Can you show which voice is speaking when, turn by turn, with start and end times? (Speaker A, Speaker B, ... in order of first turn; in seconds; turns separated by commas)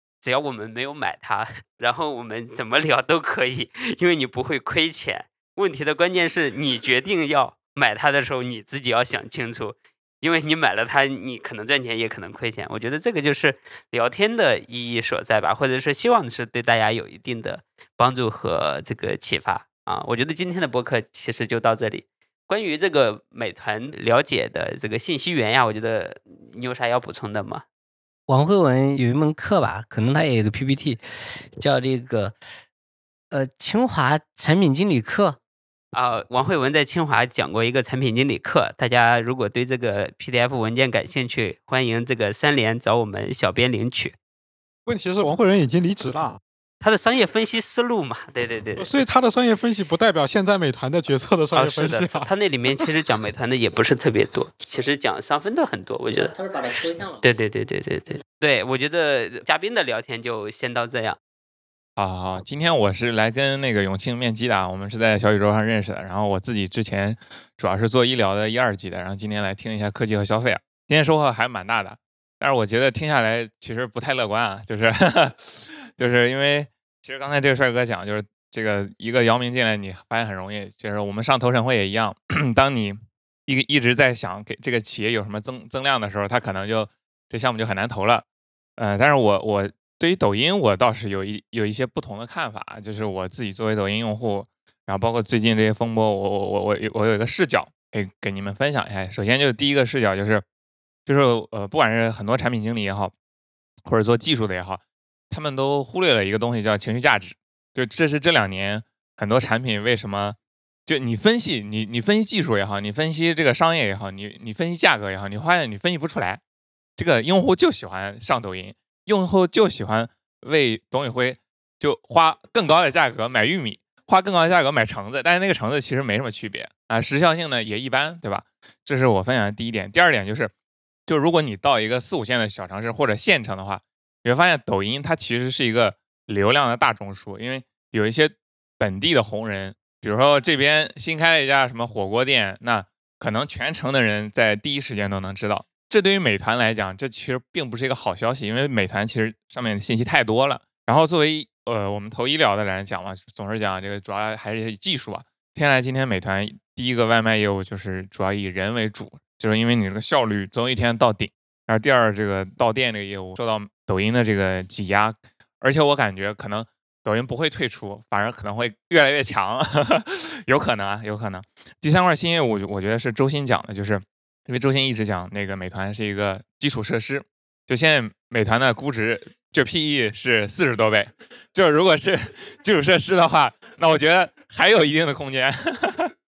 Speaker A: 0.2-27.6, Speaker B: 28.3-32.4, Speaker B: 33.3-35.4, Speaker A: 35.9-44.1, Speaker C: 44.9-46.4, Speaker A: 46.8-49.0, Speaker C: 48.8-52.3, Speaker A: 51.5-56.4, Speaker B: 56.1-57.2, Speaker A: 57.2-61.2, Speaker D: 62.0-88.2, Speaker D: 88.8-100.4, Speaker D: 101.1-103.1, Speaker D: 103.9-116.4, Speaker D: 117.0-130.5, Speaker D: 131.1-186.1